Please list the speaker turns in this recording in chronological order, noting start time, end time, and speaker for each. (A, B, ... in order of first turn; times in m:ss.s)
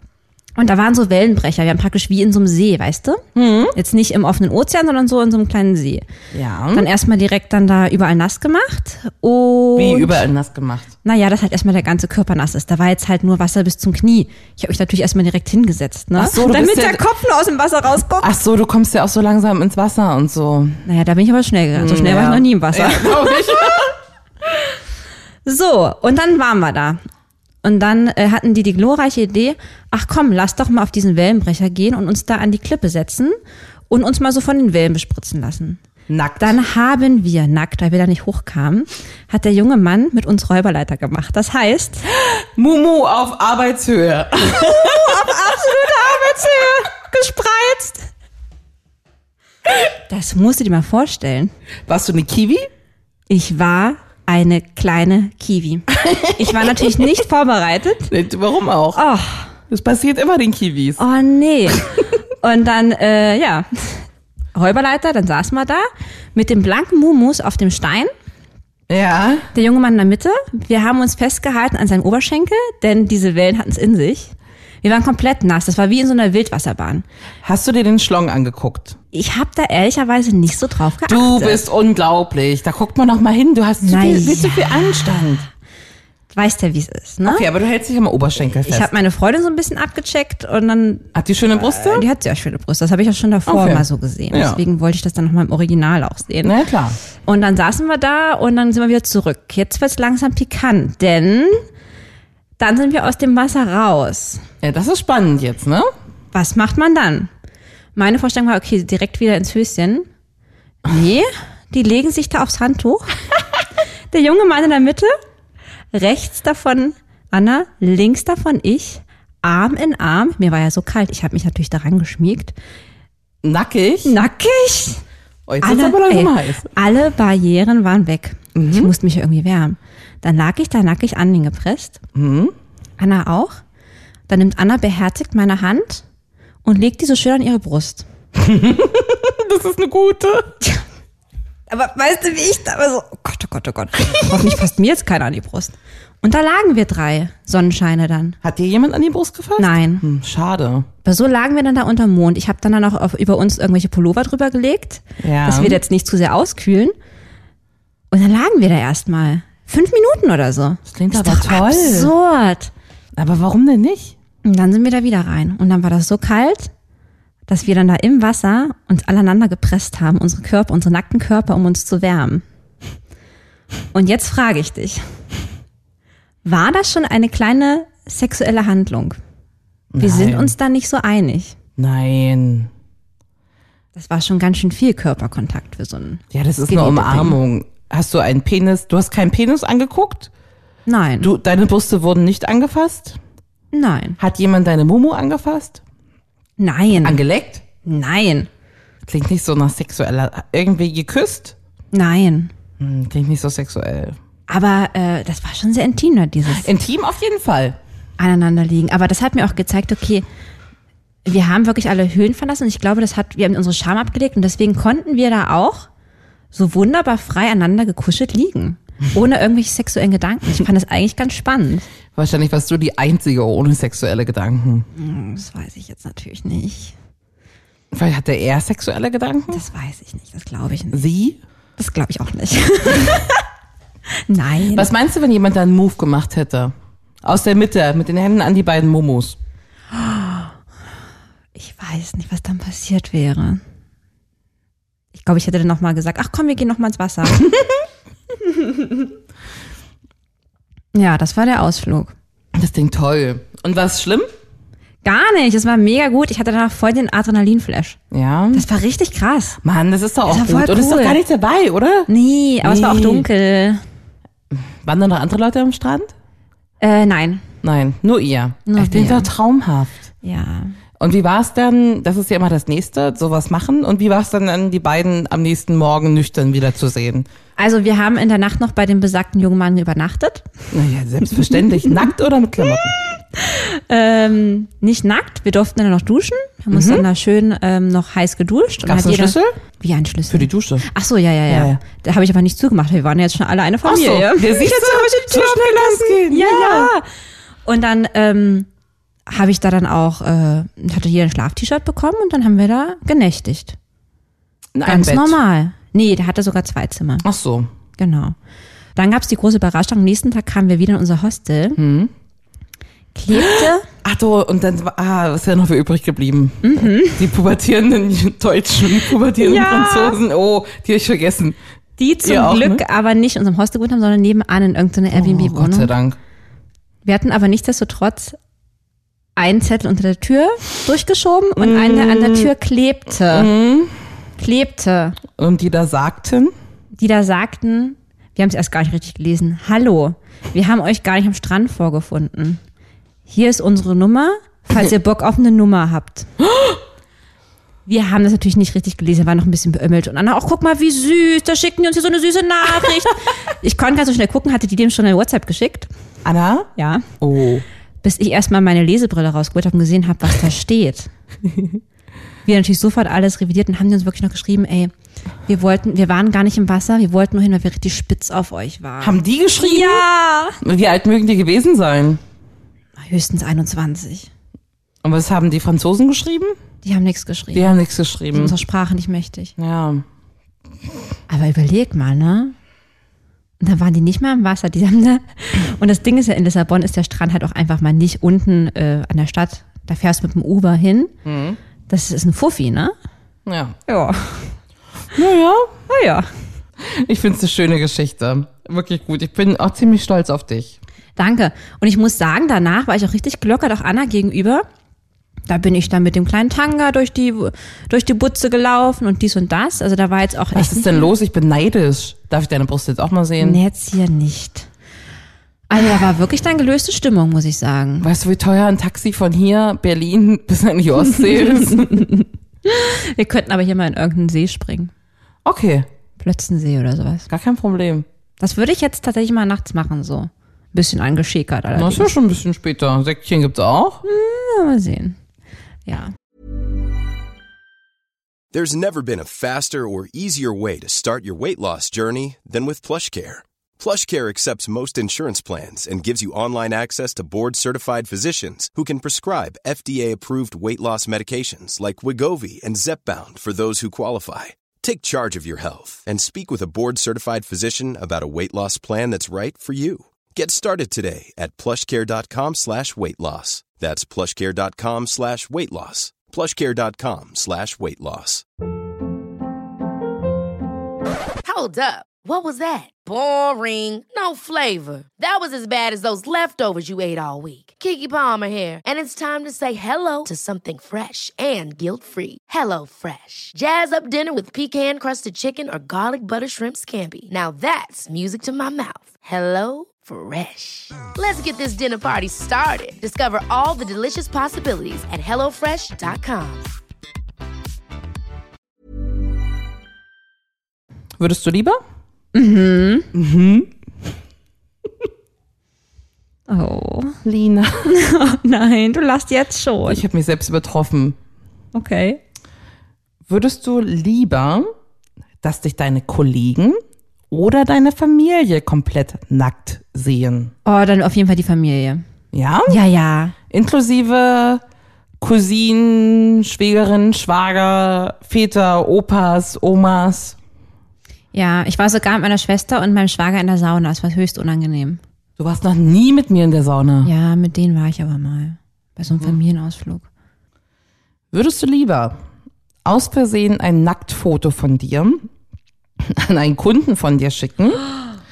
0:00.6-0:03.2 A
0:03.3-0:03.7 B
0:03.7-0:06.0 A
0:06.3-0:06.9 B
0:06.7-0:10.2 A
0:09.8-0:10.9 B
0:11.0-0:18.3 A
0:16.2-0:17.0 B
0:18.2-0:20.8 B
0:20.8-0:23.4 A
0:21.7-0:23.9 B
0:25.4-0:27.0 A
0:27.6-0:33.4 A
0:33.9-0:35.8 A
0:36.1-0:36.6 B
0:36.4-0:42.0 A
0:42.2-0:45.3 B
0:44.6-0:48.1 A
0:50.1-0:51.5 A
0:51.9-0:52.7 B
0:53.3-0:58.1 A
0:55.9-0:56.9 B
0:58.1-0:59.0 B
0:58.9-0:59.5 A
0:59.7-1:01.0 B
1:01.0-1:08.1 A
1:08.9-1:09.5 B
1:09.5-1:17.0 A
1:17.4-1:19.0 B
1:19.1-1:21.6 A
1:21.0-1:25.4 B
1:23.8-1:25.4 A
1:26.3-1:27.4 A
1:27.2-1:28.9 B
1:28.6-1:36.6 A
1:31.1-1:32.1 B
1:33.4-1:34.6 B
1:36.4-1:37.0 B
1:37.2-1:41.6 A
1:42.6-1:44.4 A
1:44.6-1:45.9 B
1:46.3-1:47.3 A
1:48.0-1:50.1 A
1:50.8-1:53.1 A
1:54.1-1:55.1 A
1:55.9-2:02.5 A
2:03.4-2:04.2 B
2:04.0-2:05.0 A
2:05.5-2:06.7 B
2:05.6-2:12.0 A
2:08.5-2:08.9 B
2:12.1-2:12.5 B
2:13.0-2:13.6 A
2:14.3-2:16.0 A
2:16.6-2:18.0 A
2:18.4-2:20.5 B
2:21.7-2:28.4 A
2:28.4-2:30.9 B
2:29.6-2:30.0 A
2:31.0-2:36.9 A
2:35.2-2:35.8 B
2:38.1-2:42.7 A
2:40.9-2:42.1 B
2:43.1-2:44.2 B
2:44.4-2:46.7 A
2:47.5-2:52.4 A
2:53.9-2:55.0 A
2:56.4-2:59.2 A
2:59.9-3:00.5 B
3:00.0-3:01.5 A
3:01.8-3:02.7 B
3:03.9-3:07.4 A
3:06.3-3:10.3 B
3:10.9-3:11.3 A
3:11.2-3:13.2 B
3:13.7-3:14.2 A
3:14.2-3:15.8 B
3:16.6-3:17.2 A
3:17.0-3:17.6 B
3:17.8-3:18.5 A
3:19.0-3:21.6 B
3:21.9-3:22.5 A
3:22.8-3:24.2 B
3:24.5-3:26.7 A
3:26.5-3:27.8 B
3:28.2-3:30.2 A
3:31.2-3:35.9 A
3:36.5-3:41.9 A
3:42.1-3:44.9 B
3:44.9-3:46.9 A
3:47.9-3:49.6 B
3:49.5-3:51.0 A
3:50.9-3:51.4 B
3:51.8-3:53.4 A
3:54.3-3:54.9 A
3:54.7-3:59.4 B
3:59.9-4:00.5 A
4:01.6-4:03.6 A
4:05.1-4:07.4 A
4:08.4-4:09.0 A
4:10.9-4:12.1 A
4:12.5-4:14.3 B
4:15.0-4:18.0 A
4:18.1-4:18.6 B
4:18.5-4:19.6 A
4:19.6-4:22.1 B
4:20.3-4:21.2 A
4:22.1-4:23.8 A
4:22.6-4:23.2 B
4:24.5-4:26.1 B
4:26.8-4:27.4 A
4:27.6-4:30.1 B
4:28.6-4:29.3 A
4:30.2-4:30.8 A
4:31.0-4:37.2 B
4:37.6-4:40.5 A
4:40.7-4:43.0 B
4:43.4-4:57.0 A
4:46.7-4:47.0 B
4:48.8-4:49.6 B
4:50.3-4:50.8 B
4:51.5-4:51.8 B
4:53.8-4:56.9 B
4:57.6-4:58.7 A
4:59.3-5:03.8 A
5:04.7-5:05.4 B
5:04.8-5:07.2 A
5:07.2-5:07.7 B
5:08.0-5:08.3 A
5:08.9-5:11.8 A
5:11.8-5:12.1 B
5:13.1-5:13.8 A
5:13.3-5:21.6 B
5:16.6-5:17.3 A
5:19.4-5:20.2 A
5:22.0-5:25.9 A
5:22.2-5:22.8 B
5:25.1-5:26.2 B
5:27.0-5:28.4 A
5:29.4-5:33.5 A
5:31.6-5:32.5 B
5:33.3-5:34.0 B
5:34.4-5:35.2 A
5:35.4-5:36.5 B
5:37.0-5:42.6 A
5:43.3-5:46.3 A
5:46.5-5:46.8 B
5:47.8-5:55.9 A
5:56.2-5:57.6 B
5:56.8-5:57.0 A
5:58.0-6:01.1 A
6:02.4-6:04.9 A
6:05.5-6:10.6 A
6:09.0-6:10.0 B
6:10.6-6:12.2 B
6:13.0-6:14.3 A
6:15.0-6:16.6 B
6:16.8-6:17.7 A
6:17.5-6:18.6 B
6:18.3-6:19.5 A
6:19.6-6:20.0 B
6:21.3-6:22.5 A
6:23.6-6:31.1 A
6:31.2-6:31.6 B
6:31.9-6:32.9 A
6:33.4-6:33.8 B
6:33.9-6:34.5 A
6:35.1-6:35.7 B
6:35.9-6:36.3 A
6:36.8-6:40.8 B
6:41.2-6:44.6 A
6:45.5-6:51.1 A
6:50.5-6:53.6 B
6:53.4-6:54.7 A
6:55.7-6:58.1 A
6:58.0-7:02.1 B
7:01.4-7:04.9 A
7:05.4-7:05.9 B
7:06.2-7:07.3 A
7:07.3-7:08.1 B
7:08.4-7:12.1 A
7:11.7-7:14.0 B
7:14.0-7:15.2 A
7:15.9-7:16.1 A
7:18.5-7:48.4 C
7:51.4-8:16.7 D
8:21.2-8:21.8 B
8:22.3-8:23.1 A
8:23.1-8:23.7 B
8:26.5-8:27.2 A
8:27.2-8:27.9 B
8:27.9-8:30.0 A
8:29.9-8:31.2 B
8:31.7-8:32.2 A
8:33.3-8:34.7 B
8:35.4-8:36.8 B
8:37.3-8:40.5 B
8:40.6-8:42.0 A
8:42.3-8:42.8 B
8:42.7-8:43.3 A
8:43.5-8:44.6 B
8:45.2-8:50.4 B
8:51.3-8:55.0 A
8:55.4-8:57.1 B
8:57.0-9:00.0 A
9:01.3-9:02.2 B
9:02.8-9:05.3 B
9:06.0-9:07.8 B